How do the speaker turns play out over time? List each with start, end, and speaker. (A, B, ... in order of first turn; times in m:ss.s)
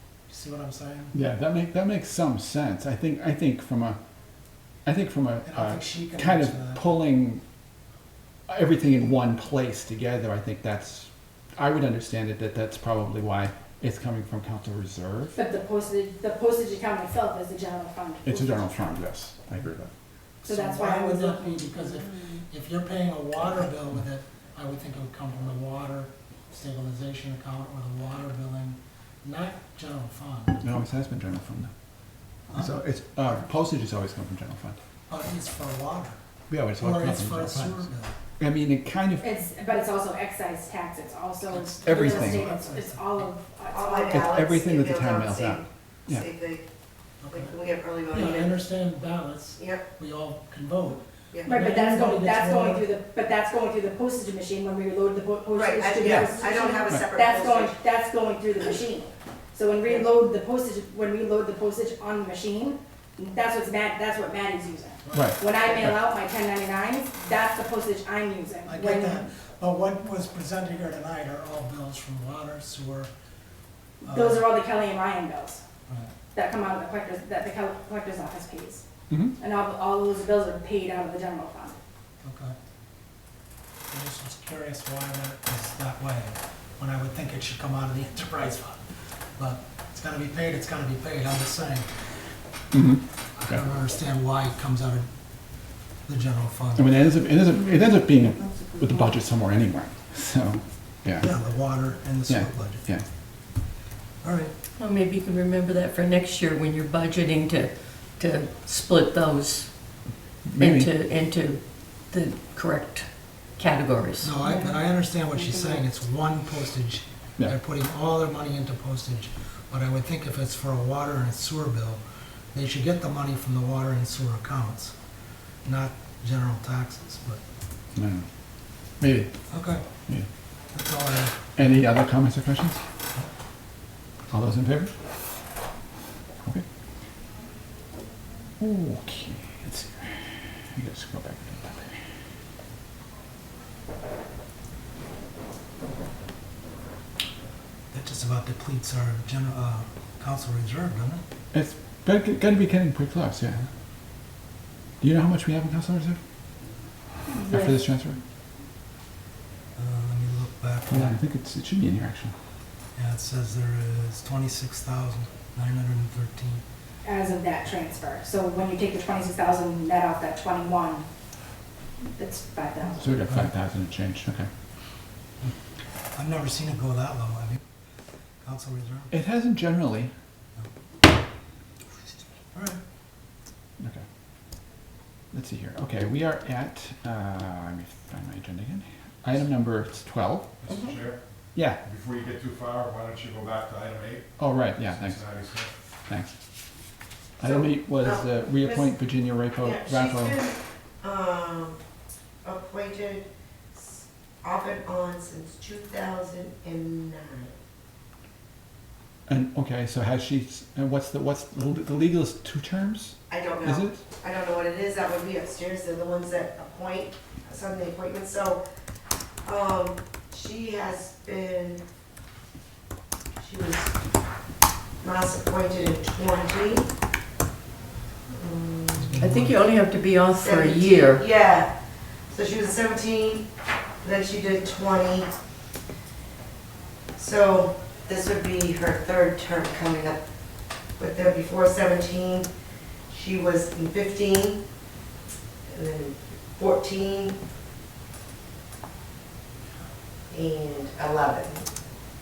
0:00.3-0:01.1 A
0:01.1-0:04.0 B
0:04.8-0:07.4 B
0:05.4-0:06.8 A
0:08.5-0:15.4 B
0:15.4-0:18.6 C
0:18.2-0:19.9 B
0:20.4-0:30.6 A
0:20.5-0:21.4 C
0:30.6-0:31.7 B
0:32.5-0:34.8 B
0:35.1-0:36.2 A
0:36.5-0:37.8 B
0:36.8-0:38.2 A
0:38.4-0:39.4 B
0:39.2-0:44.3 C
0:41.4-0:43.3 A
0:41.8-0:42.5 B
0:43.7-0:46.6 D
0:44.1-0:46.2 B
0:47.2-0:47.5 A
0:47.3-0:48.6 D
0:48.1-0:52.9 A
0:49.6-0:49.8 D
0:51.3-0:51.8 D
0:51.6-1:09.2 C
0:55.5-0:57.8 D
0:56.0-0:57.0 B
1:05.0-1:05.6 A
1:05.1-1:06.0 B
1:08.6-1:13.1 A
1:14.0-1:14.6 A
1:14.0-1:15.6 C
1:15.9-1:16.1 A
1:16.3-1:18.8 C
1:19.1-1:19.3 B
1:19.4-1:21.8 C
1:22.2-1:22.5 A
1:23.9-1:28.8 A
1:29.4-1:32.0 A
1:32.7-1:33.6 B
1:33.4-1:35.1 A
1:36.0-1:36.9 A
1:36.8-1:41.3 B
1:41.2-1:42.8 A
1:42.3-1:43.0 B
1:44.2-1:44.5 A
1:44.8-1:49.8 E
1:50.4-1:50.9 B
1:50.6-1:54.3 E
1:54.2-2:02.0 A
2:02.5-2:04.9 A
2:05.6-2:07.4 A
2:08.0-2:08.2 B
2:09.0-2:09.3 B
2:09.5-2:09.8 A
2:10.7-2:11.8 A
2:11.6-2:12.8 B
2:14.3-2:14.9 B
2:18.6-2:20.1 B
2:20.7-2:21.8 B
2:27.9-2:31.2 A
2:31.5-2:33.7 B
2:35.0-2:36.2 B
2:37.3-2:37.7 C
2:37.5-2:38.2 B
2:39.8-2:41.2 A
2:40.9-2:42.3 B
2:43.0-2:46.6 A
2:47.0-2:51.1 C
2:52.1-2:53.0 C
2:52.9-2:54.5 B
2:56.1-2:57.6 A
2:58.4-2:59.1 A
2:59.1-3:00.1 B
3:02.5-3:02.8 A
3:05.3-3:10.5 B
3:10.6-3:11.2 F
3:11.5-3:11.8 B
3:11.8-3:15.7 F
3:14.4-3:15.2 B
3:17.4-3:20.4 B
3:17.4-3:18.9 D
3:19.6-3:21.8 D
3:22.4-3:27.5 D
3:29.3-3:34.0 B
3:33.3-3:38.6 D
3:39.4-3:41.8 D
3:43.4-3:43.9 D
3:45.0-3:46.9 D
3:48.3-3:49.3 D
3:49.0-3:49.6 A
3:49.2-3:51.2 E
3:50.4-3:51.7 D
3:52.3-3:53.5 D
3:54.0-3:55.3 D
3:57.2-4:00.2 D
4:01.0-4:02.5 D
4:03.1-4:04.6 D
4:05.7-4:07.4 D
4:10.3-4:11.6 D